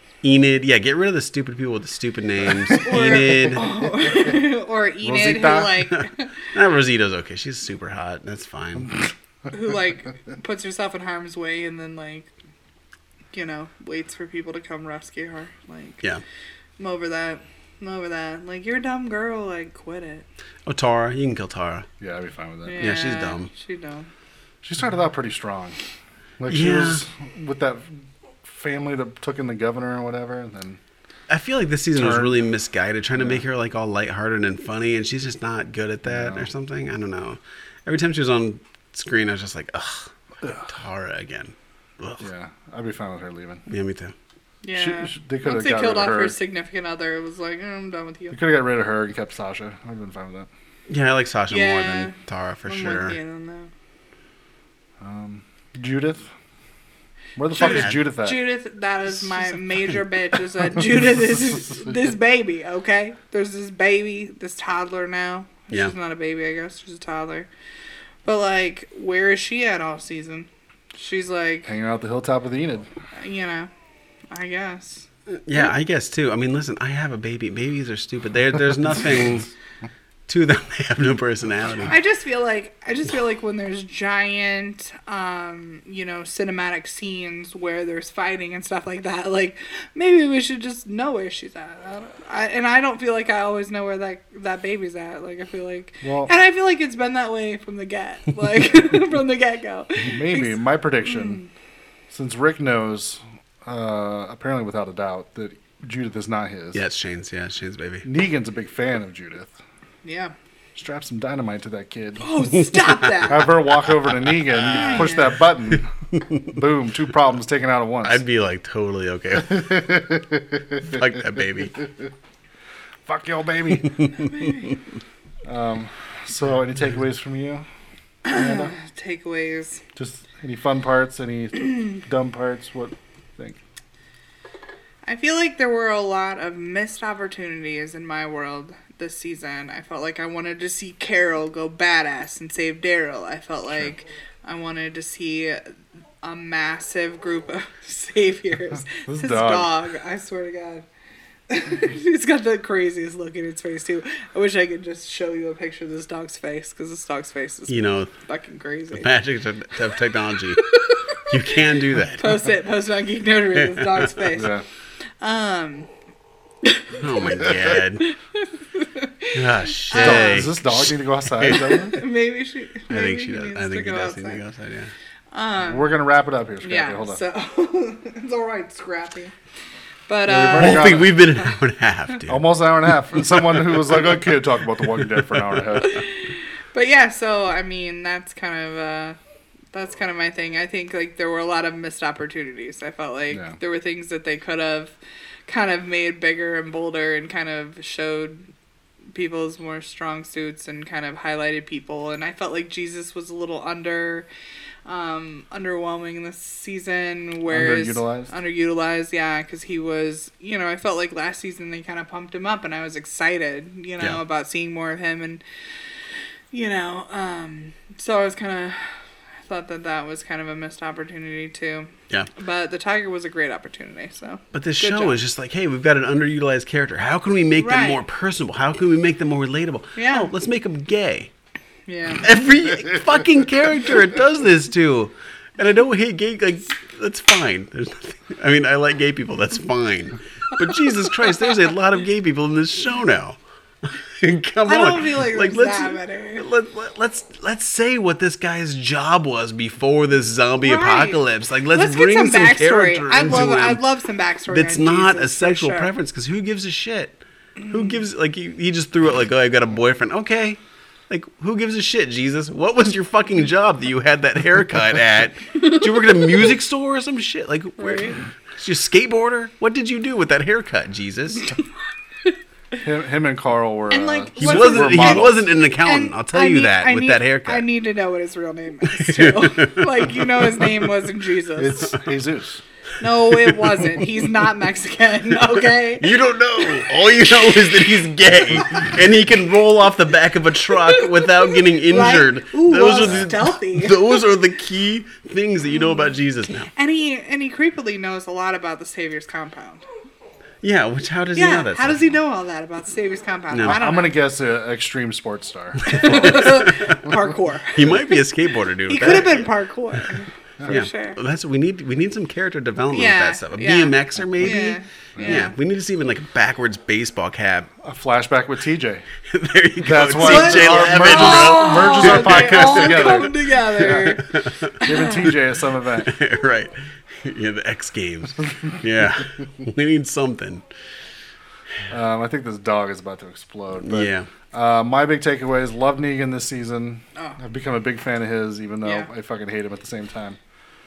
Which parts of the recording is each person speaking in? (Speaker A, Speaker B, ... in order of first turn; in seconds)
Speaker A: 0.2-3.7, 5.9-8.9, 20.6-21.9, 22.8-23.5, 26.5-27.0, 31.3-42.2, 43.7-44.1, 50.9-53.2, 57.6-58.0, 75.3-79.5, 80.3-82.0, 106.7-108.1, 112.7-113.1, 114.0-115.1, 115.7-116.5, 118.0-119.8, 120.8-121.8, 123.8-124.7, 157.7-158.1, 158.9-160.7, 161.2-162.4, 163.6-164.2, 166.9-168.1, 169.3-171.6, 172.9-174.9, 180.6-182.6, 183.1-184.2, 185.1-185.8, 224.5-231.3, 232.2-253.8, 254.5-271.5, 274.4-277.6, 278.8-280.9, 283.3-284.0, 285.6-296.7, 300.6-302.2, 303.5-303.8, 305.8-307.0, 307.7-310.0, 310.6-317.7, 319.3-324.8, 326.0-330.6, 333.8-334.3
Speaker B: 2.8-6.3, 9.5-12.3, 13.3-16.0, 16.8-20.2, 22.6-24.1, 44.6-48.4, 51.5-53.7, 57.5-67.5, 68.2-71.7, 73.1-73.7, 74.3-75.7, 81.8-101.5, 110.0-110.3, 112.2-113.5, 114.7-115.3, 124.2-124.8, 128.2-129.8, 135.1-145.7, 146.2-150.8, 151.5-159.1, 160.5-161.3, 162.1-164.6, 165.2-165.9, 166.6-167.0, 168.0-170.5, 171.5-174.4, 175.3-175.9, 176.6-179.3, 180.1-181.4, 185.8-189.2, 189.7-198.5, 199.1-204.3, 204.8-215.4, 216.5-225.2, 227.6-228.0, 229.9-230.3, 231.9-232.2, 244.6-246.5, 250.6-251.2, 251.7-255.9, 257.6-258.0, 267.8-268.2, 273.9-281.9, 283.0-286.2, 291.9-294.2, 296.7-299.8, 301.4-304.1, 305.9-308.2, 308.9-311.2, 312.9-315.5, 320.2-325.3
Speaker C: 5.0-5.8, 22.0-22.8, 24.6-25.8, 26.4-30.8, 31.9-32.3, 33.2-33.4, 36.0-36.5, 42.2-43.7, 44.7-46.4, 48.3-50.5, 55.0-56.3, 57.4-58.4, 71.6-72.9, 96.0-96.3, 100.0-101.4, 102.1-106.8, 108.0-109.6, 110.7-112.4, 113.2-115.9, 116.5-118.2, 119.4-121.2, 121.8-122.1, 123.0-124.0, 125.4-127.7, 128.3-128.7, 129.9-133.6, 148.9-149.7, 164.3-164.6, 167.3-167.8, 169.9-172.0, 175.6-177.2, 180.2-181.2, 182.3-186.0, 193.3-193.6, 207.5-208.3, 272.8-275.5, 281.6-282.6, 303.6-306.5, 310.6-310.9, 315.1-315.5, 317.8-319.1, 319.8-323.3, 324.8-326.1, 331.9-340.4